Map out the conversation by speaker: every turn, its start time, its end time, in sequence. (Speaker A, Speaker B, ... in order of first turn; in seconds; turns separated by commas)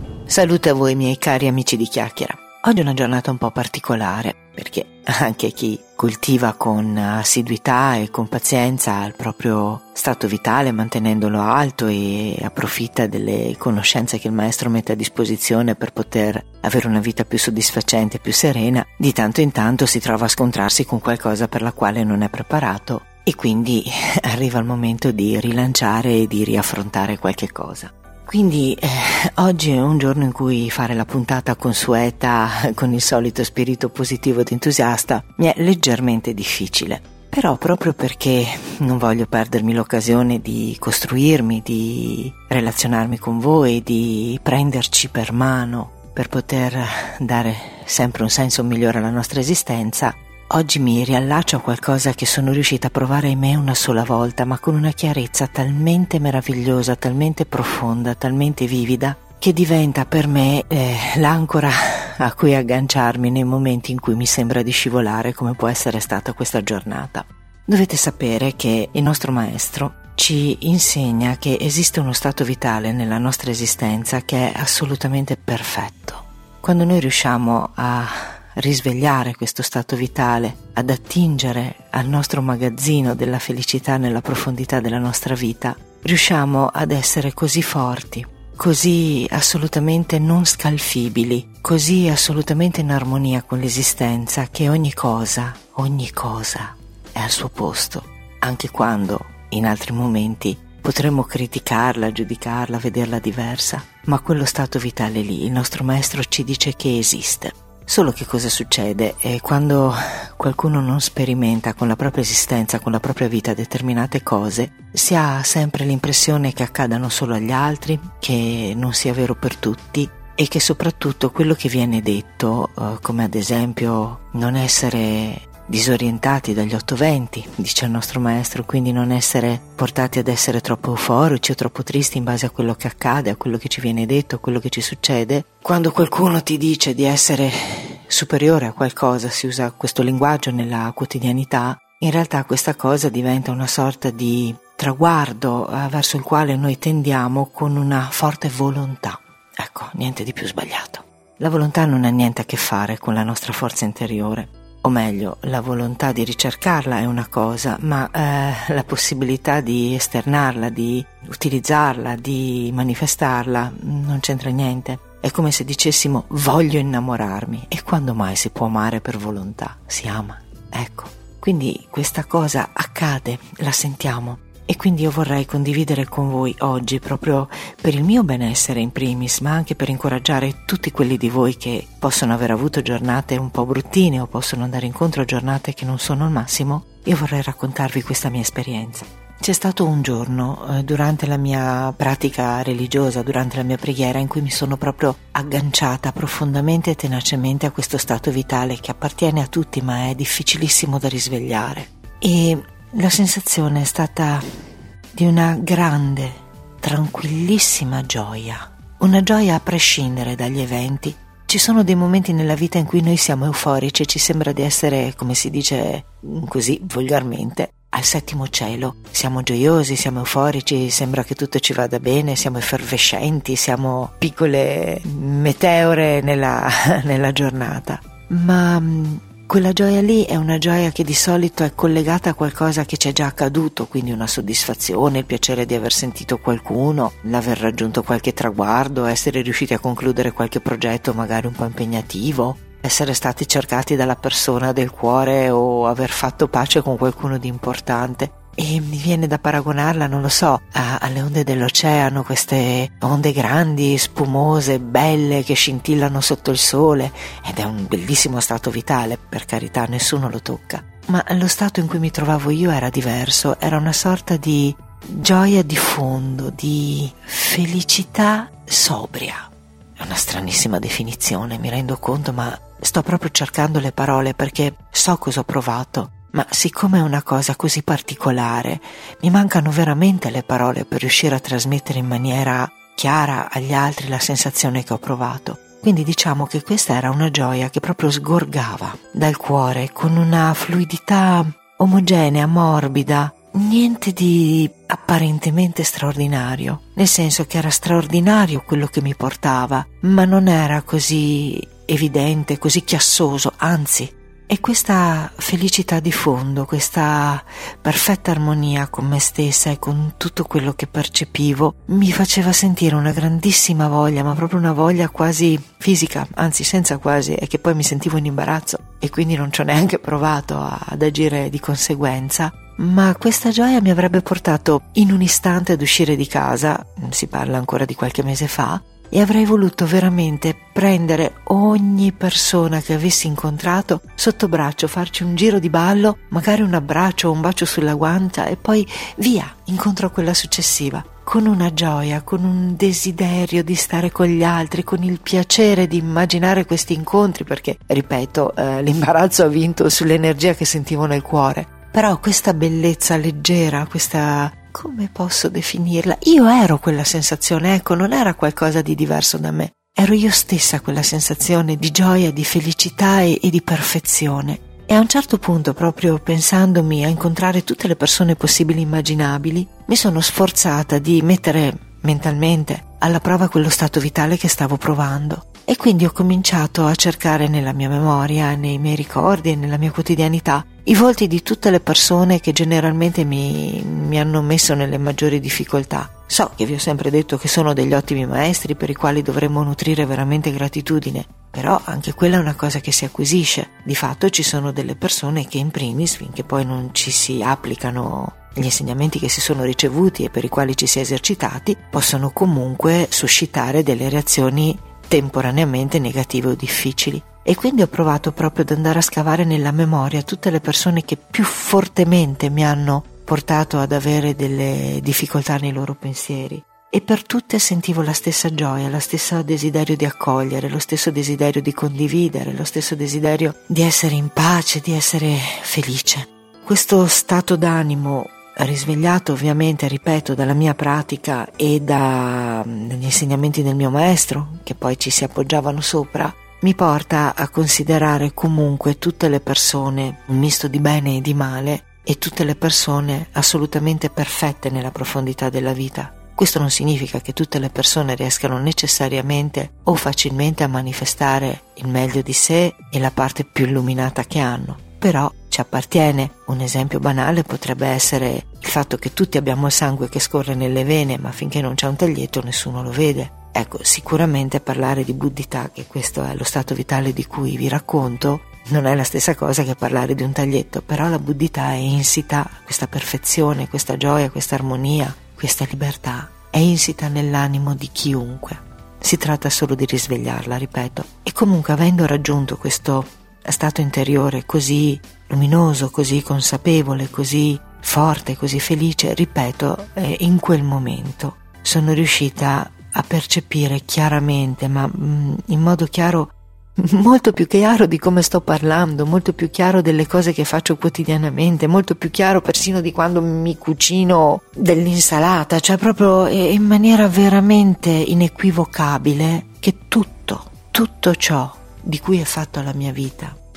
Speaker A: 0.3-204.4, Speaker A: 205.1-513.4